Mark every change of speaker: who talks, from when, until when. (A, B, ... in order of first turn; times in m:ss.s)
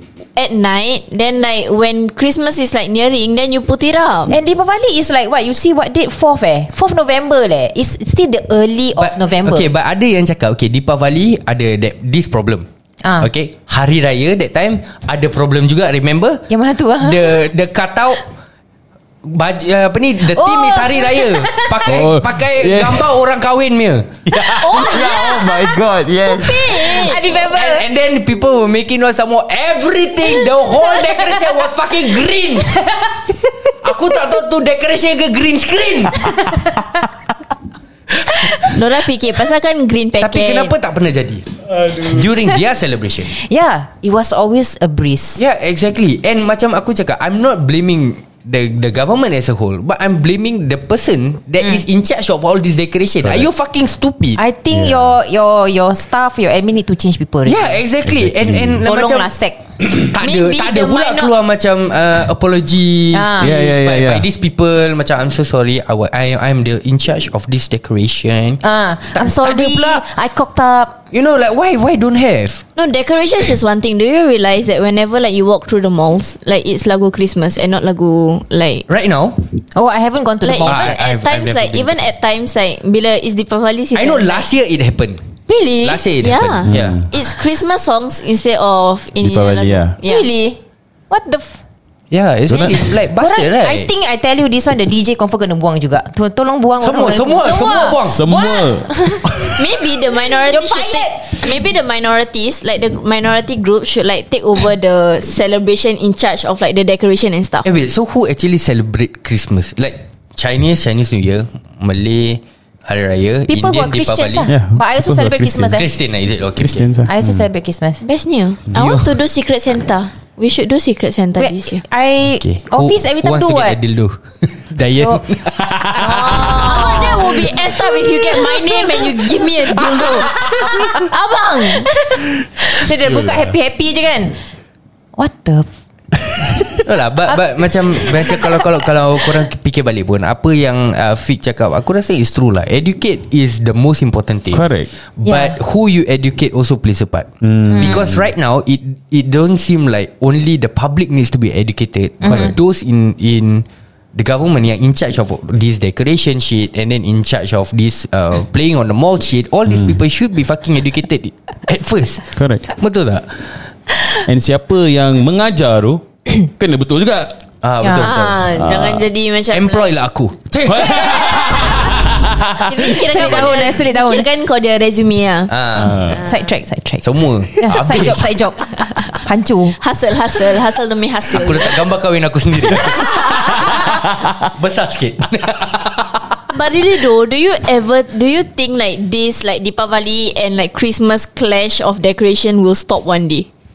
0:00.4-0:04.3 A
0:04.3-0:09.7 B
0:09.0-0:12.6 C
0:13.0-0:13.3 B
0:13.2-0:16.4 C
0:16.5-0:17.4 B
0:17.0-0:18.2 C
0:19.2-0:24.2 C
0:20.2-0:22.0 B
0:21.8-0:23.2 D
0:24.2-0:27.0 D
0:24.6-0:27.2 A
0:24.9-0:25.3 B
0:26.7-0:27.9 B
0:27.3-0:32.8 C
0:32.8-0:33.1 B
0:33.8-0:36.4 C
0:36.4-0:36.7 B
0:38.3-0:38.7 C
0:38.7-0:40.7 A
0:40.2-0:43.3 C
0:43.3-0:45.4 B
0:45.4-0:54.4 C
0:54.4-0:57.6 B
0:54.7-0:55.1 D
0:57.4-1:10.0 C
0:58.0-0:58.8 D
0:58.8-0:59.6 B
1:00.2-1:01.3 A
1:03.1-1:03.5 B
1:03.4-1:04.2 D
1:08.6-1:11.0 B
1:11.1-1:12.6 C
1:12.8-1:18.8 A
1:18.9-1:19.4 C
1:19.7-1:21.0 B
1:20.4-1:24.4 A
1:20.6-1:22.0 C
1:23.9-1:25.2 C
1:25.5-1:26.0 B
1:25.8-1:27.0 C
1:26.2-1:30.2 A
1:26.6-1:27.1 D
1:29.2-1:30.0 D
1:30.0-1:31.6 B
1:32.1-1:33.9 C
1:32.5-1:32.9 D
1:33.2-1:39.5 B
1:36.8-1:38.3 C
1:38.1-1:39.6 D
1:39.5-1:47.7 A
1:40.5-1:41.5 B
1:47.6-1:54.5 C
1:53.5-1:55.8 B
1:54.5-1:55.8 D
1:55.6-1:56.8 C
1:56.6-1:57.5 D
1:57.0-1:58.0 B
1:58.0-2:01.8 A
1:58.7-1:59.2 C
2:01.4-2:03.8 B
2:02.4-2:06.8 C
2:05.6-2:06.7 D
2:06.0-2:11.9 A
2:06.2-2:07.4 B
2:10.4-2:11.0 B
2:11.8-2:14.4 B
2:13.0-2:13.6 D
2:15.2-2:15.7 B
2:16.8-2:24.6 C
2:18.0-2:18.4 B
2:24.5-2:24.9 D
2:25.2-2:43.2 C
2:25.2-2:25.5 B
2:27.4-2:28.2 D
2:27.7-2:28.0 B
2:32.2-2:32.5 B
2:39.7-2:40.0 D
2:42.3-2:42.6 D
2:44.2-2:47.4 D
2:47.6-2:48.5 C
2:47.8-2:48.1 B
2:47.9-2:49.9 A
2:48.5-2:49.1 D
2:49.5-2:51.9 C
2:50.6-2:52.9 D
2:50.9-2:52.0 A
2:52.5-2:56.5 A
2:52.8-2:54.3 B
2:55.5-2:56.0 C
2:55.8-2:56.2 D
2:56.2-2:59.8 B
2:57.0-2:58.3 C
2:58.9-2:59.1 A
2:59.8-3:01.8 A
3:01.3-3:03.9 C
3:02.9-3:03.8 A
3:03.2-3:04.5 D
3:04.5-3:06.4 C
3:06.5-3:13.5 A